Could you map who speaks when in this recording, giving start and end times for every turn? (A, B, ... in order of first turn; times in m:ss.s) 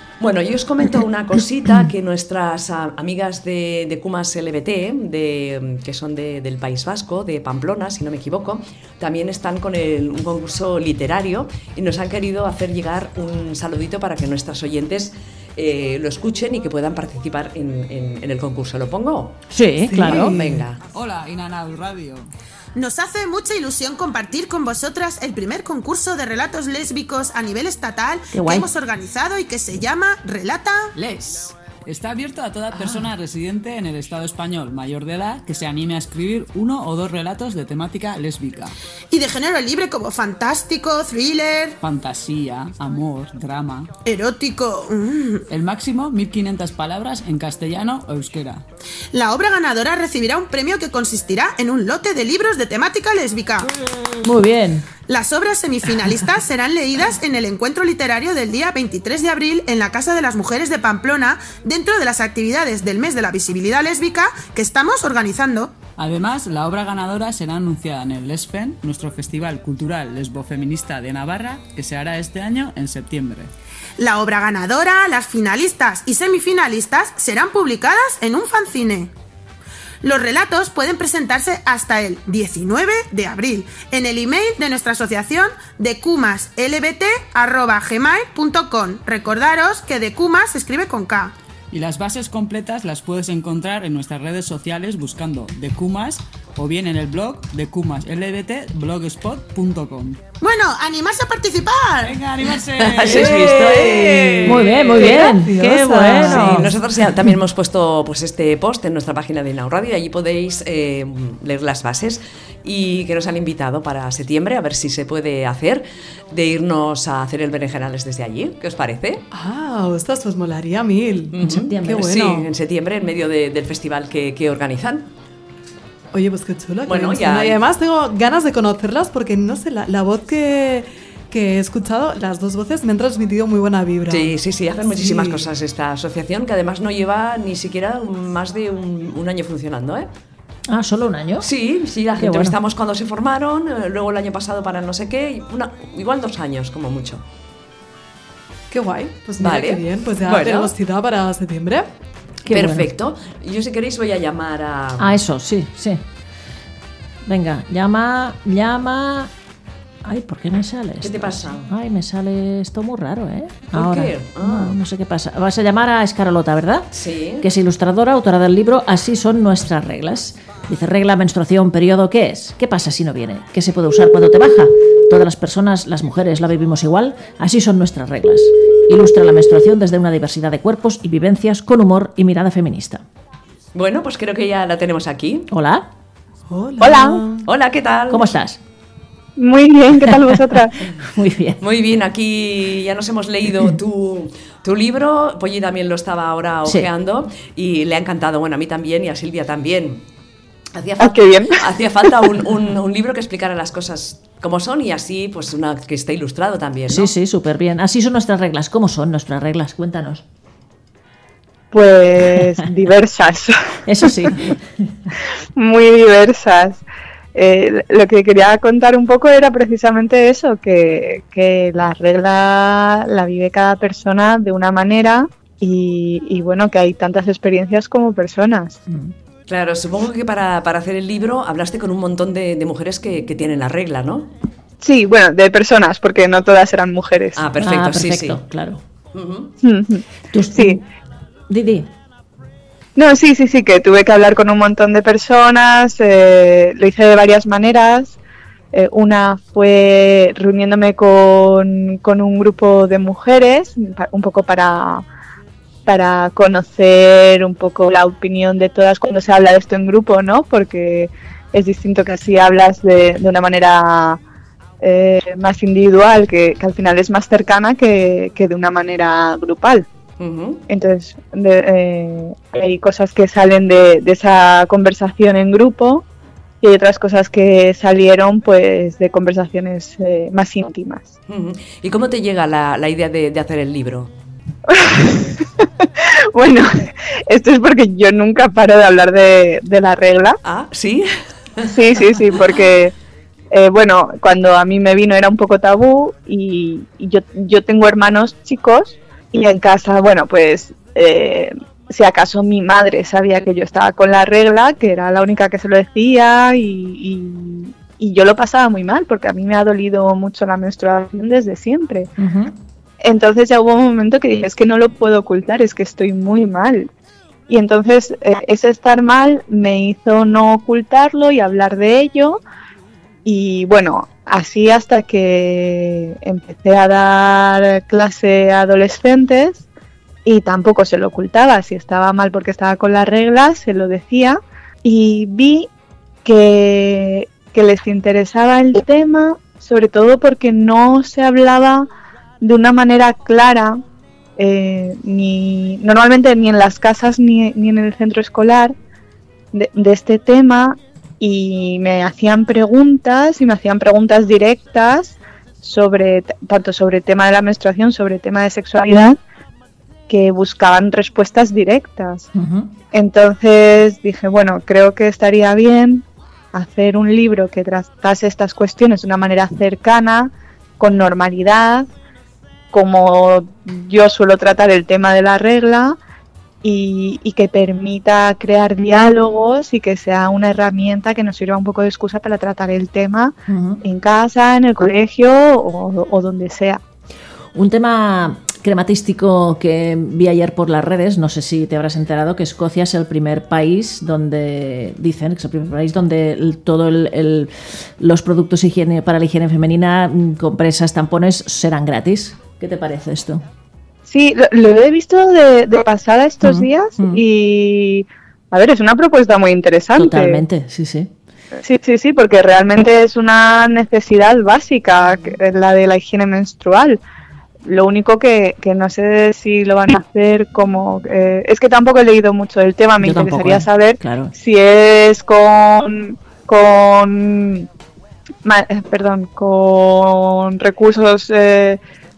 0:00.2-0:19.4 A
0:19.5-0:20.4 B
0:19.9-0:20.6 C
0:20.0-0:20.8 A
0:20.9-0:22.3 D
0:22.8-0:30.9 E
0:28.3-0:28.7 B
0:31.0-0:38.7 D
0:39.1-0:41.8 E
0:41.8-0:43.9 D
0:44.0-0:45.4 E
0:45.5-0:48.6 D
0:49.1-0:53.7 E
0:54.2-0:54.9 B
0:55.1-1:05.8 E
1:06.0-1:13.5 D
1:14.0-1:19.1 E
1:20.0-1:31.3 E
1:31.7-1:40.2 D
1:40.4-1:42.2 E
1:42.0-1:43.8 D
1:42.6-1:45.1 A
1:43.1-1:46.8 C
1:44.4-1:46.7 B
1:46.0-1:59.2 A
1:59.3-2:02.5 C
2:01.3-2:05.1 A
2:01.4-2:02.1 B
2:06.1-2:14.4 C
2:06.9-2:07.6 A
2:14.1-2:20.1 A
2:14.9-2:15.5 C
2:20.7-2:21.5 B
2:21.4-2:27.2 A
2:22.2-2:22.6 B
2:28.7-2:31.9 C
2:29.4-2:30.7 A
2:32.5-2:32.9 B
2:32.5-2:35.2 A
2:35.0-2:36.0 B
2:37.2-2:39.3 B
2:40.0-2:46.9 B
2:41.0-2:41.7 A
2:43.7-2:44.8 A
2:46.9-2:47.5 A
2:47.4-3:03.0 B
3:03.7-3:05.5 A
3:05.5-3:05.9 B
3:06.5-3:07.5 C
3:06.8-3:07.2 F
3:07.4-3:08.3 A
3:08.1-3:08.6 B
3:09.4-3:10.7 F
3:10.0-3:11.6 B
3:11.6-3:20.0 A
3:20.7-3:27.1 A
3:21.0-3:21.6 F
3:26.9-3:30.2 B
3:31.7-3:33.6 F
3:33.9-3:34.9 B
3:35.6-3:36.8 F
3:37.4-3:48.8 F
3:49.5-3:54.3 A
3:54.8-3:57.4 F
3:57.4-3:58.4 A
3:57.6-3:58.8 B
3:59.1-3:59.5 A
3:59.6-4:00.0 F
4:00.3-4:00.8 B
4:01.5-4:01.9 B
4:03.0-4:08.2 F
4:08.7-4:15.0 F
4:15.9-4:24.2 F
4:24.8-4:29.9 F
4:30.2-4:30.6 A
4:30.7-4:36.0 F
4:36.6-4:41.1 F
4:41.3-4:44.1 A
4:44.7-4:50.4 F
4:50.4-4:51.7 A
4:51.7-4:52.9 F
4:53.5-5:12.1 F
5:12.2-5:12.5 B
5:13.0-5:16.9 F
5:17.5-5:22.4 F
5:23.2-5:29.6 F
5:30.2-5:35.7 F
5:36.2-5:41.9 F
5:42.4-5:43.8 F
5:44.4-5:48.8 F
5:49.5-5:59.2 F
6:00.1-6:02.3 F
6:02.4-6:02.7 B
6:02.9-6:11.9 F
6:12.7-6:16.0 F
6:16.6-6:26.8 F
6:23.5-6:23.8 B
6:27.5-6:43.4 B
6:44.1-6:50.4 F
6:46.4-6:47.2 B
6:50.0-6:51.1 B
6:51.6-6:57.0 F
6:57.6-7:07.7 F
7:03.0-7:04.3 B
7:08.4-7:11.8 F